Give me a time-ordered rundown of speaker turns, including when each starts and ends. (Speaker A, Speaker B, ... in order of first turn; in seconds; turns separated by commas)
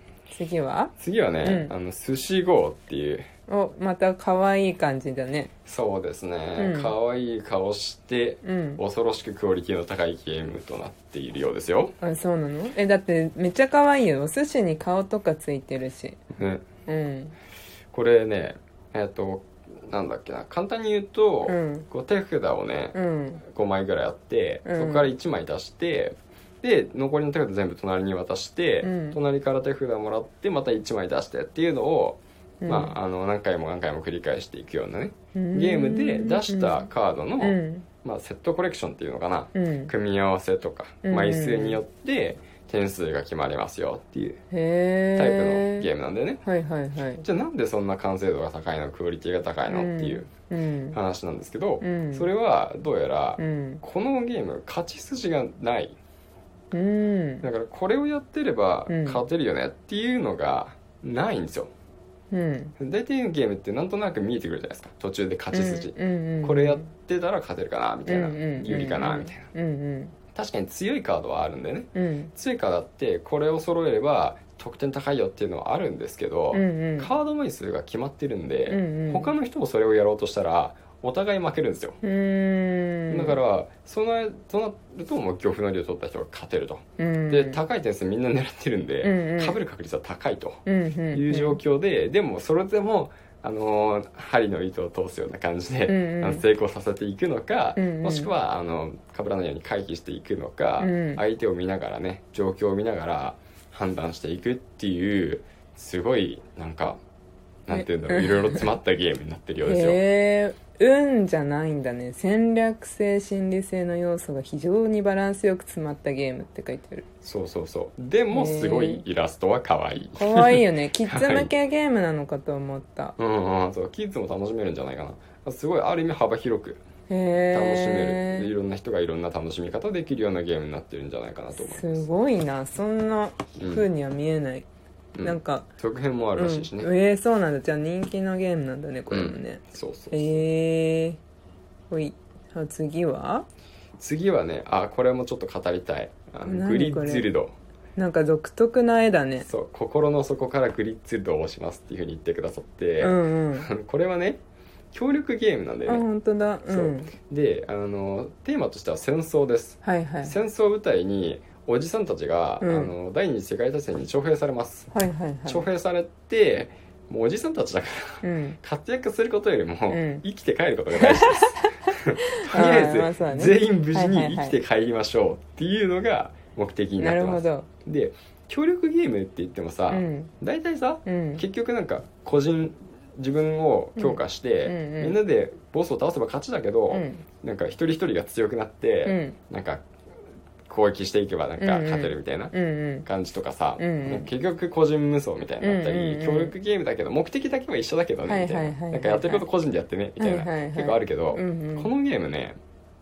Speaker A: 0.3-1.7, Speaker B: 1.0-3.2, Speaker A: 3.5-5.5, Speaker B: 5.7-11.9, Speaker A: 6.5-6.9, Speaker A: 8.4-8.8, Speaker A: 12.0-16.2, Speaker B: 16.3-16.7, Speaker A: 16.9-17.3, Speaker B: 17.9-44.4, Speaker A: 21.4-21.9, Speaker A: 22.9-23.4, Speaker A: 24.6-25.1, Speaker A: 28.8-29.2, Speaker A: 32.6-33.0, Speaker A: 35.3-36.9, Speaker A: 37.4-37.9, Speaker A: 39.5-39.9, Speaker A: 41.0-41.8, Speaker A: 44.5-45.9, Speaker B: 45.1-46.4, Speaker A: 46.4-47.2, Speaker B: 47.2-50.3, Speaker A: 49.7-51.0, Speaker B: 50.9-56.0, Speaker A: 51.8-52.3, Speaker A: 53.4-53.8, Speaker A: 56.7-57.5, Speaker B: 57.4-61.7, Speaker A: 58.9-59.2, Speaker A: 62.3-62.7, Speaker B: 62.8-69.5, Speaker A: 65.5-66.9, Speaker A: 68.0-70.1, Speaker B: 70.3-82.0, Speaker A: 71.9-72.3, Speaker A: 76.5-77.1, Speaker A: 78.7-79.3, Speaker A: 82.0-83.4, Speaker B: 83.1-107.0, Speaker A: 87.0-87.6, Speaker A: 89.0-89.6, Speaker A: 90.7-91.6, Speaker A: 95.9-96.4, Speaker A: 97.8-98.3, Speaker A: 100.8-101.2, Speaker B: 107.7-110.0, Speaker A: 107.7-108.7, Speaker A: 109.6-117.0, Speaker B: 117.2-121.5, Speaker A: 118.3-119.0, Speaker A: 120.1-123.1, Speaker B: 123.2-126.8, Speaker A: 127.1-128.5, Speaker B: 127.5-132.1, Speaker A: 131.6-134.7, Speaker B: 133.6-133.9, Speaker B: 135.1-136.9, Speaker A: 135.2-135.7, Speaker A: 136.3-141.2, Speaker B: 139.1-140.3, Speaker A: 141.9-143.4, Speaker B: 144.0-147.5, Speaker A: 146.4-147.3, Speaker A: 147.9-149.5, Speaker B: 149.4-154.4, Speaker A: 153.0-153.7, Speaker B: 154.9-156.1, Speaker A: 155.9-157.1, Speaker B: 156.7-164.9, Speaker A: 159.8-160.3, Speaker A: 162.6-162.9, Speaker A: 164.9-165.6, Speaker B: 165.4-189.8, Speaker A: 168.2-168.6, Speaker A: 169.9-170.2, Speaker A: 170.9-174.5, Speaker A: 177.0-177.7, Speaker A: 179.9-180.3, Speaker A: 181.1-181.4, Speaker A: 184.0-185.2, Speaker A: 186.9-187.2, Speaker A: 189.0-189.4, Speaker B: 190.7-202.6, Speaker A: 191.6-193.1, Speaker A: 193.8-194.3, Speaker A: 195.6-196.5, Speaker A: 198.3-199.4, Speaker A: 200.2-201.9